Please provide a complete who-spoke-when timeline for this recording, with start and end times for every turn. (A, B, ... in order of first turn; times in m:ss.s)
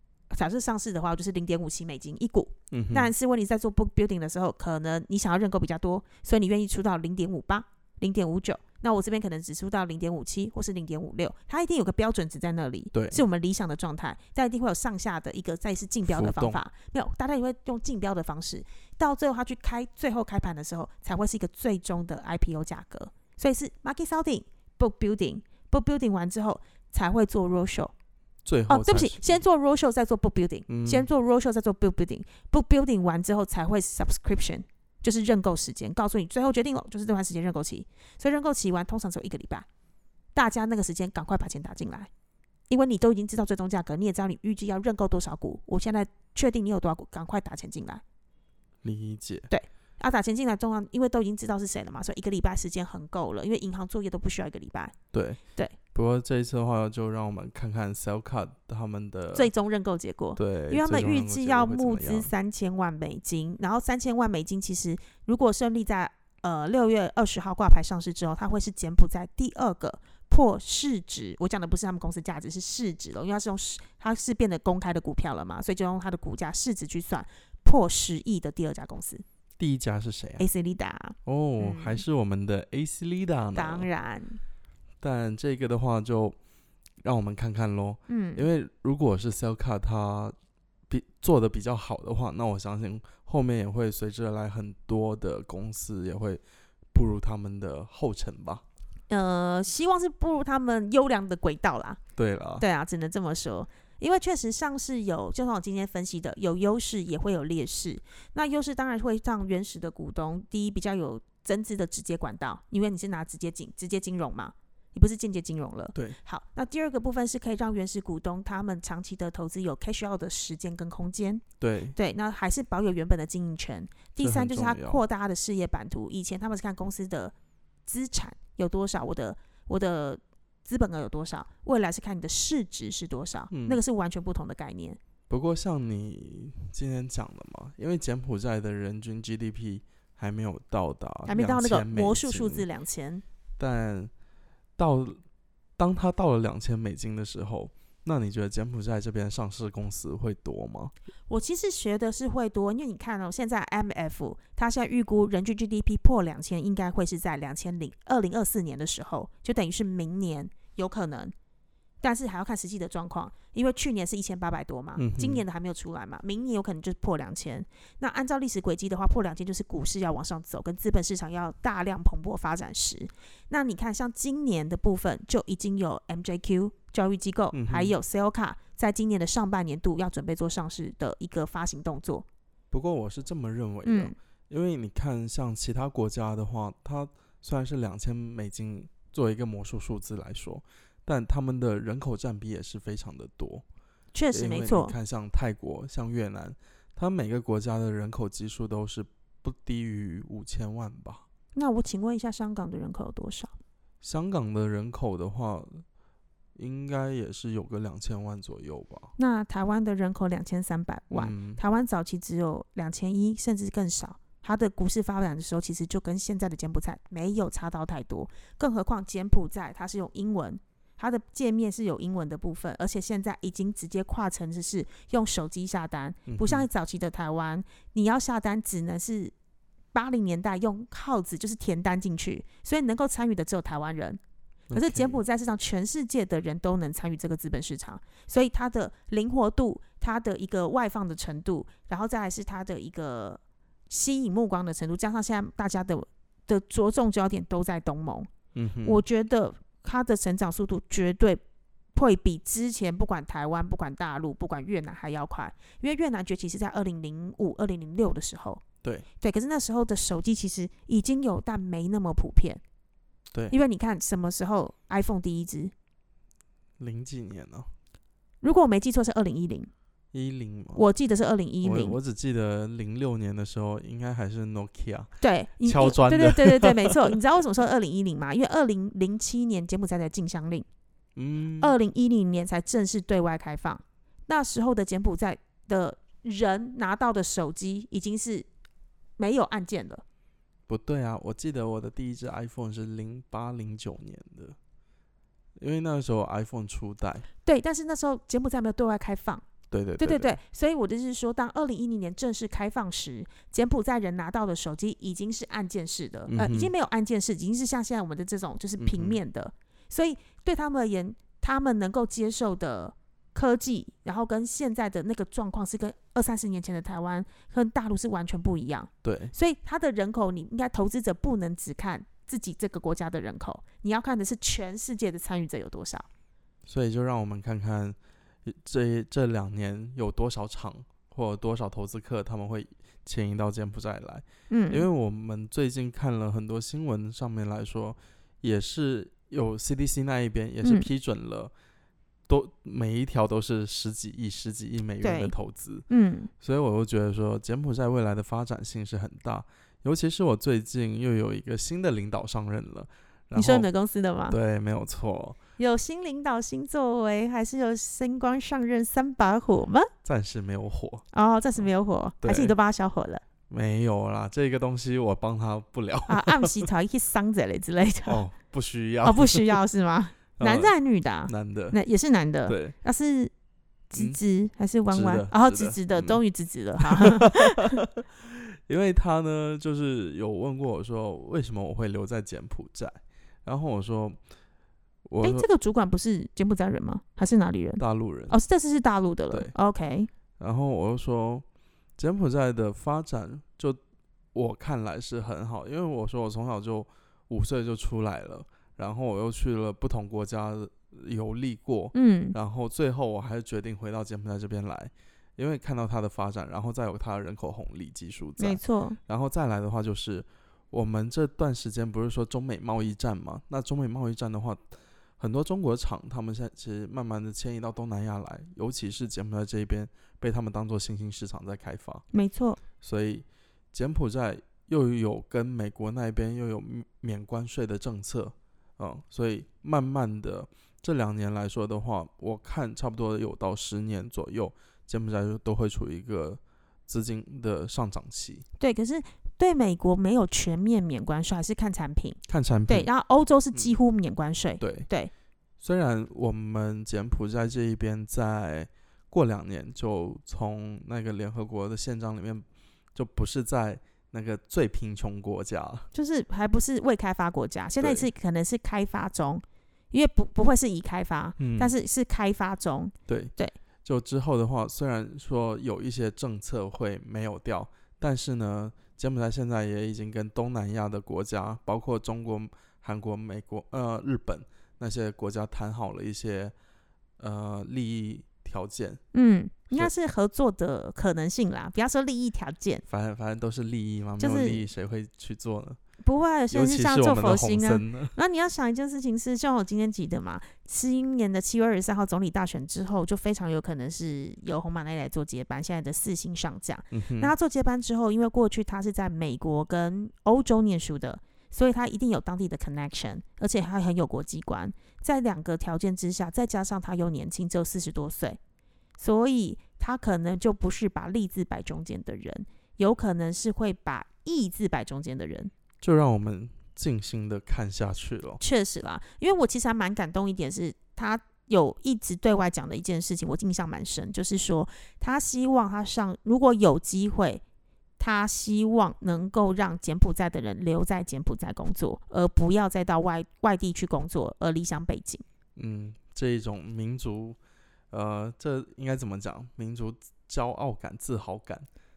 0:00.3-0:27.9 A
0:02.7-0:03.1 B
0:12.9-0:13.2 B
0:16.0-0:16.6 B
0:28.4-0:29.4 B
0:28.7-0:39.6 A
0:30.7-0:31.1 B
0:40.3-0:42.1 A
0:42.7-0:48.0 A
0:48.8-0:49.5 B
0:49.5-0:54.9 A
0:55.1-0:55.4 B
0:55.9-0:59.5 B
0:59.3-1:19.2 A
1:00.4-1:02.3 B
1:19.6-1:20.5 B
1:20.4-1:22.0 A
1:21.2-1:23.9 B
1:23.5-1:24.4 A
1:25.0-1:26.4 B
1:27.0-1:30.3 B
1:28.1-1:28.4 A
1:30.9-1:36.4 B
1:36.9-1:38.6 B
1:39.1-1:42.0 A
1:42.2-1:42.6 B
1:42.6-2:01.4 A
2:01.6-2:02.0 B
2:01.9-2:07.3 A
2:04.2-2:05.0 B
2:07.8-2:15.0 A
2:13.5-2:13.8 B
2:15.3-2:22.6 B
2:21.2-2:23.2 A
2:23.6-2:24.1 B
2:24.8-2:25.2 B
2:25.8-2:30.9 B
2:31.3-2:41.3 A
2:42.0-3:02.2 A
2:45.0-2:45.4 B
2:57.5-2:57.9 B
3:02.7-3:13.6 B
3:03.8-3:04.1 A
3:14.1-3:15.0 A
3:14.3-3:21.2 B
3:21.5-3:23.5 A
3:24.0-3:25.8 B
3:26.5-3:29.1 B
3:29.2-3:49.3 A
3:31.1-3:31.6 B
3:46.3-3:46.7 B
3:49.9-3:54.2 A
3:54.7-3:55.2 B
3:54.7-4:08.3 A
4:08.5-4:09.0 B
4:08.8-4:11.4 A
4:11.9-4:18.6 A
4:19.2-4:22.6 A
4:23.5-4:25.7 A
4:26.8-4:27.7 B
4:28.4-4:29.7 A
4:30.1-4:30.8 B
4:30.7-4:32.0 A
4:31.6-4:35.1 B
4:35.2-4:40.6 A
4:35.6-4:36.9 B
4:41.2-4:41.7 B
4:41.6-4:48.5 A
4:49.2-4:50.0 A
4:50.7-4:54.6 B
4:55.6-4:57.2 B
4:57.4-4:59.4 A
4:59.7-5:00.3 B
5:00.0-5:26.1 A
5:06.3-5:06.7 B
5:08.8-5:09.2 B
5:19.0-5:19.3 B
5:26.6-5:41.5 B
5:34.5-5:34.9 A
5:40.6-5:40.9 A
5:42.3-5:45.8 B
5:45.0-5:45.3 A
5:45.9-5:46.3 A
5:46.4-5:53.7 B
5:53.3-5:54.4 A
5:54.3-5:55.4 B
5:55.6-5:59.9 A
6:00.0-6:01.0 B
6:01.1-6:03.2 A
6:02.2-6:02.5 B
6:03.5-6:06.6 B
6:06.1-6:08.2 A
6:08.0-6:09.5 B
6:09.0-6:13.3 A
6:10.4-6:10.7 B
6:11.2-6:11.8 B
6:12.5-6:12.7 B
6:13.9-6:17.8 A
6:14.9-6:16.2 B
6:16.8-6:24.2 B
6:25.0-6:25.4 B
6:25.2-6:30.1 A
6:27.8-6:28.4 B
6:30.4-6:31.4 B
6:32.0-6:33.8 B
6:34.3-7:02.0 B
6:41.9-6:42.4 A
6:48.4-6:49.0 A
7:02.1-7:02.6 A
7:02.8-7:18.4 B
7:18.6-7:25.1 A
7:22.3-7:22.9 B
7:24.6-7:24.9 B
7:25.6-7:35.9 B
7:35.9-7:43.5 A
7:37.8-7:38.1 B
7:41.4-7:41.7 B
7:43.1-7:43.3 B
7:43.8-7:56.5 B
7:57.2-7:59.0 B
7:59.1-8:02.8 A
8:02.9-8:05.8 B
8:04.2-8:04.6 A
8:06.0-8:28.4 A
8:06.5-8:08.1 B
8:16.9-8:17.3 B
8:29.0-8:35.5 A
8:35.8-8:38.4 B
8:38.4-8:47.4 A
8:48.0-8:55.2 A
8:55.6-8:57.4 B
8:57.9-9:01.7 B